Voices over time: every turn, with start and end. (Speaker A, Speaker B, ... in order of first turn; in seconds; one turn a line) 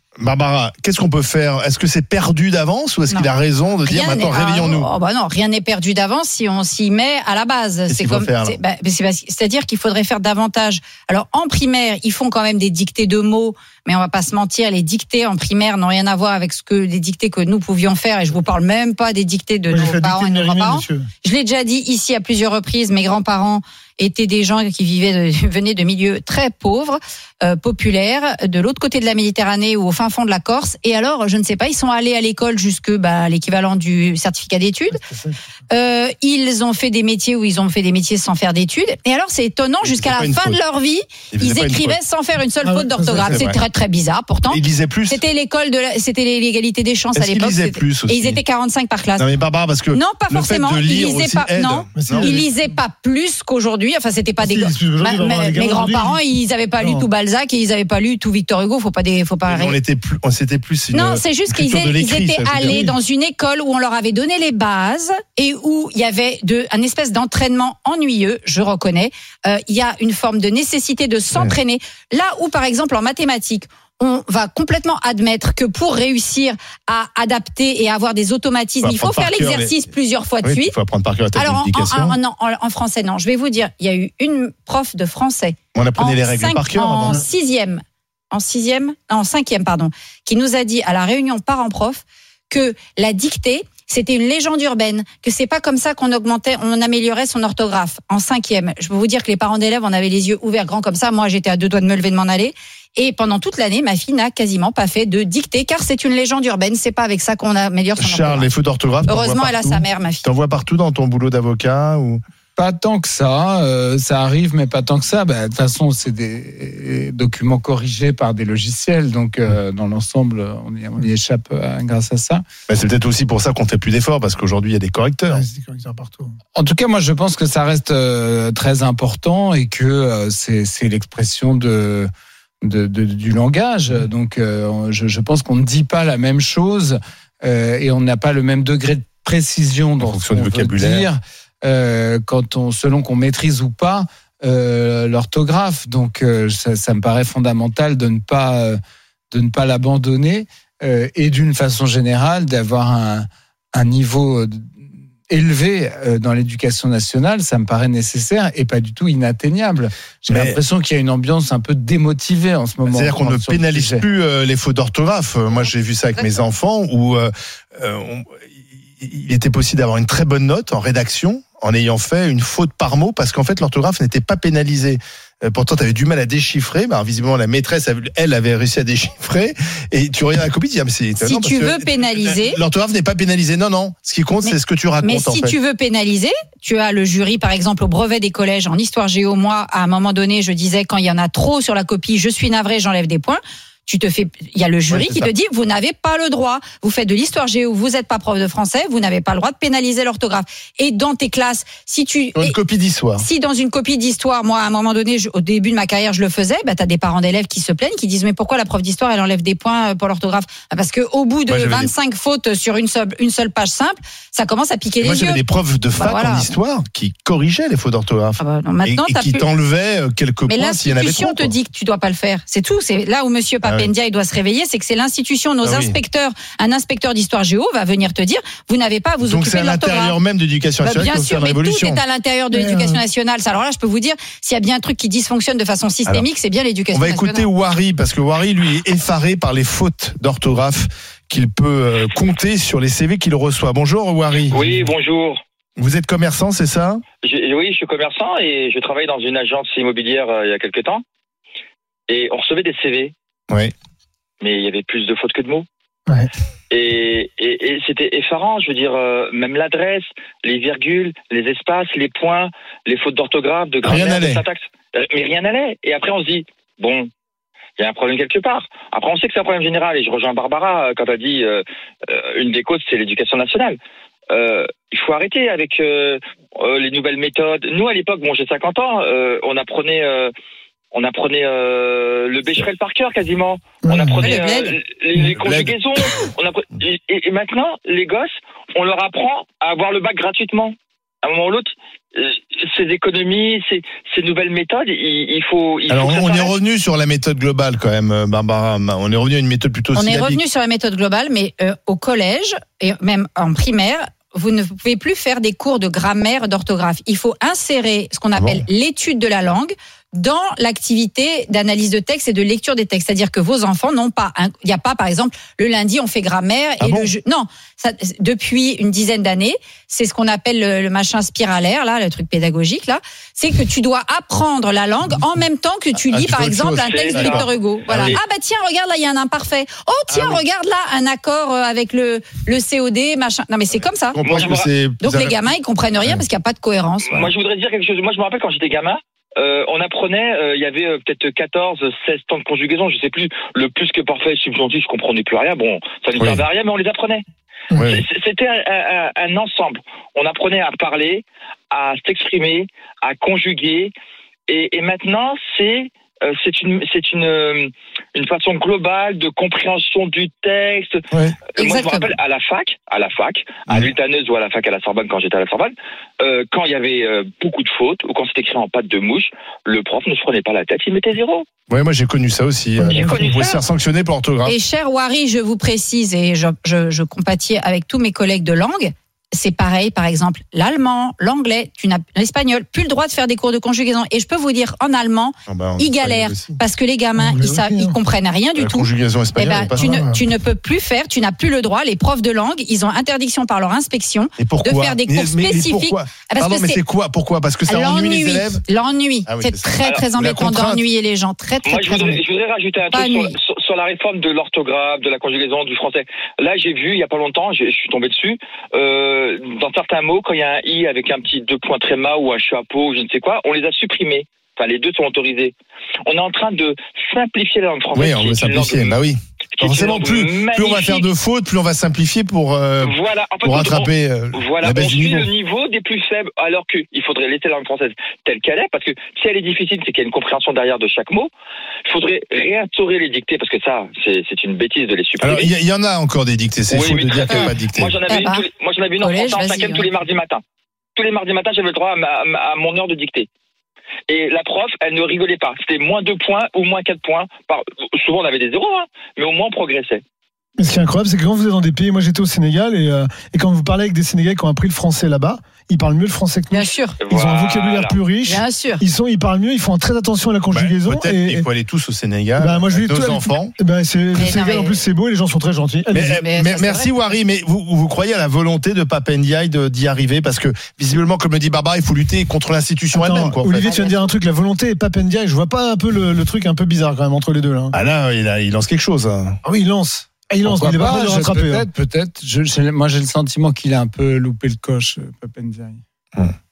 Speaker A: 0.2-4.9
Speaker B: 3.8-35.0
Speaker A: 7.9-8.6
Speaker C: 19.7-21.1
Speaker C: 35.0-35.4
Speaker B: 35.7-49.2
Speaker A: 39.8-40.6
Speaker A: 41.3-42.0
Speaker C: 42.6-43.5
Speaker A: 43.3-43.6
Speaker A: 44.5-45.2
Speaker A: 47.1-48.4
Speaker A: 49.2-52.3
Speaker B: 49.9-59.8
Speaker C: 52.0-52.5
Speaker C: 54.4-56.2
Speaker C: 56.8-57.1
Speaker A: 59.5-62.8
Speaker B: 60.9-80.7
Speaker C: 62.6-63.0
Speaker A: 78.8-79.8
Speaker A: 80.4-82.2
Speaker B: 81.3-108.5
Speaker A: 85.8-87.2
Speaker A: 108.0-112.2
Speaker B: 109.1-110.2
Speaker D: 112.6-122.4
Speaker A: 122.7-125.4
Speaker C: 125.3-126.4
Speaker D: 126.5-132.1
Speaker D: 132.6-148.8
Speaker A: 140.0-141.1
Speaker D: 149.3-154.7
Speaker D: 155.3-164.0
Speaker A: 160.3-160.6
Speaker A: 162.9-168.3
Speaker B: 166.2-166.4
Speaker A: 169.0-185.6
Speaker B: 181.2-182.6
Speaker B: 184.4-202.6
Speaker A: 194.9-195.3
Speaker A: 202.4-203.3
Speaker B: 203.2-215.4
Speaker A: 211.5-211.9
Speaker A: 215.0-221.6
Speaker B: 216.0-216.5
Speaker B: 218.4-219.4
Speaker B: 220.5-230.2
Speaker A: 223.6-223.9
Speaker A: 225.6-226.0
Speaker A: 229.2-232.0
Speaker B: 230.8-237.5
Speaker C: 232.5-233.0
Speaker A: 236.9-244.8
Speaker E: 244.5-245.4
Speaker A: 245.8-247.0
Speaker E: 247.2-251.0
Speaker E: 252.1-253.1
Speaker E: 254.4-255.7
Speaker E: 256.7-267.1
Speaker A: 263.8-264.4
Speaker E: 267.8-273.8
Speaker E: 274.3-280.3
Speaker E: 280.9-296.6
Speaker C: 283.8-284.2
Speaker B: 284.2-284.8
Speaker A: 285.3-286.1
Speaker A: 295.9-300.4
Speaker B: 299.9-334.2
Speaker A: 308.4-308.6
Speaker A: 316.8-317.1
Speaker A: 326.0-328.2
Speaker E: 326.8-327.5
Speaker A: 330.1-330.4
Speaker A: 334.1-336.2
Speaker E: 334.2-334.7
Speaker B: 335.0-337.3
Speaker E: 337.1-347.2
Speaker A: 346.2-346.4
Speaker A: 347.7-348.0
Speaker E: 347.7-353.9
Speaker E: 354.5-361.0
Speaker A: 361.1-361.4
Speaker E: 361.6-371.5
Speaker B: 361.6-362.1
Speaker A: 371.7-374.6
Speaker E: 372.8-373.6
Speaker B: 374.4-396.8
Speaker A: 385.5-386.6
Speaker C: 387.2-387.9
Speaker A: 388.6-390.0
Speaker C: 389.8-390.2
Speaker A: 394.4-398.6
Speaker B: 397.7-402.2
Speaker A: 399.3-400.9
Speaker E: 401.7-415.5
Speaker B: 402.9-403.3
Speaker E: 416.1-419.0
Speaker A: 417.9-425.3
Speaker E: 419.5-421.1
Speaker E: 422.8-431.3
Speaker E: 431.9-435.5
Speaker A: 435.2-438.0
Speaker E: 436.7-440.4
Speaker B: 438.1-438.4
Speaker B: 439.0-439.9
Speaker E: 441.0-443.3
Speaker E: 444.1-450.0
Speaker C: 450.6-461.5
Speaker B: 456.5-457.0
Speaker E: 457.0-458.0
Speaker B: 458.3-458.8
Speaker A: 460.5-463.5
Speaker C: 462.4-466.1
Speaker B: 464.2-464.8
Speaker A: 465.9-473.7
Speaker B: 465.9-466.9
Speaker C: 472.9-477.7
Speaker B: 473.4-474.1
Speaker A: 477.7-479.4
Speaker C: 479.4-481.6
Speaker D: 480.4-485.8